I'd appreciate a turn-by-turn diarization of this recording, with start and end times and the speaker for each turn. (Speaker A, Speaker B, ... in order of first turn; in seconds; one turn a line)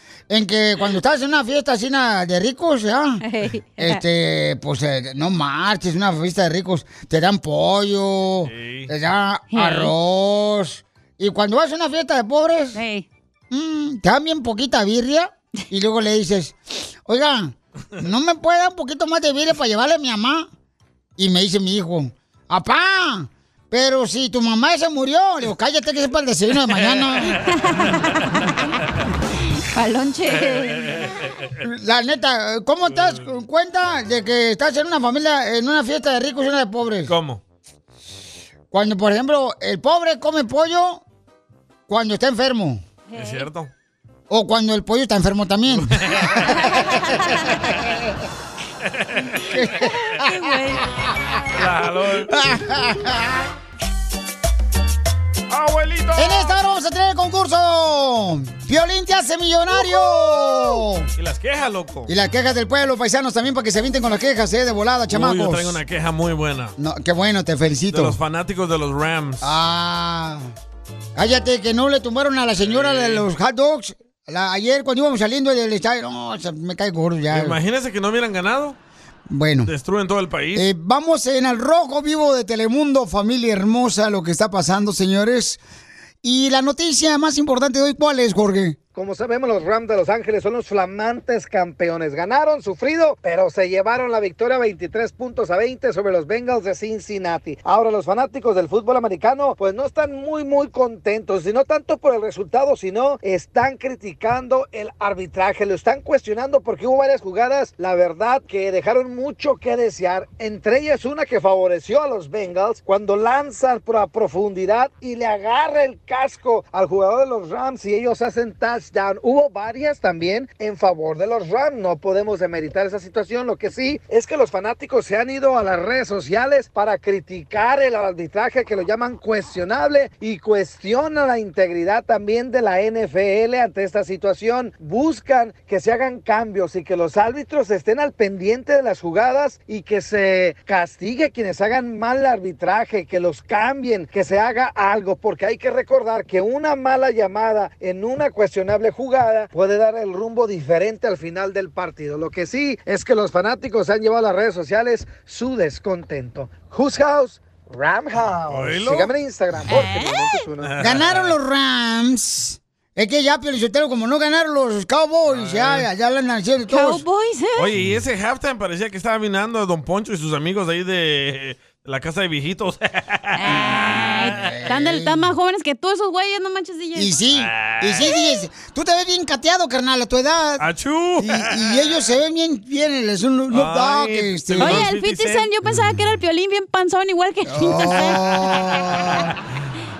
Speaker A: 0.3-3.2
Speaker B: 3.2-4.0
Speaker A: 3.8-12.8
Speaker C: 8.4-8.9
Speaker B: 9.5-9.9
Speaker B: 12.7-13.1
Speaker A: 13.5-20.5
Speaker A: 21.2-27.4
Speaker C: 26.8-27.2
Speaker B: 27.4-28.5
Speaker B: 29.6-31.0
Speaker A: 31.6-37.1
Speaker C: 32.9-33.2
Speaker C: 37.1-37.4
Speaker A: 38.7-41.0
Speaker A: 41.9-42.8
Speaker B: 43.1-43.5
Speaker C: 43.1-43.7
Speaker A: 44.3-47.2
Speaker C: 45.7-46.5
Speaker B: 46.6-47.6
Speaker A: 49.5-51.0
Speaker B: 49.8-51.3
Speaker C: 51.5-52.4
Speaker A: 52.3-53.4
Speaker C: 55.5-56.5
Speaker A: 56.1-61.1
Speaker C: 61.2-62.1
Speaker A: 62.1-65.8
Speaker C: 65.1-66.7
Speaker A: 66.8-68.2
Speaker C: 67.9-69.5
Speaker A: 69.4-70.5
Speaker A: 71.2-77.6
Speaker C: 72.6-73.3
Speaker C: 77.3-78.8
Speaker A: 79.3-79.7
Speaker C: 79.6-80.7
Speaker A: 80.5-85.6
Speaker A: 86.2-88.8
Speaker D: 88.9-160.7
Speaker C: 158.5-159.1
Speaker B: 159.7-160.4
Speaker C: 160.6-161.3
Speaker A: 160.8-167.0
Speaker C: 165.3-165.9
Speaker B: 166.7-167.7
Speaker C: 167.6-173.3
Speaker B: 173.3-177.1
Speaker A: 173.7-175.3
Speaker C: 174.0-174.5
Speaker A: 176.9-180.7
Speaker C: 177.3-178.1
Speaker C: 180.6-182.0
Speaker A: 181.2-184.9
Speaker C: 183.5-185.5
Speaker B: 184.6-188.2
Speaker A: 187.5-189.3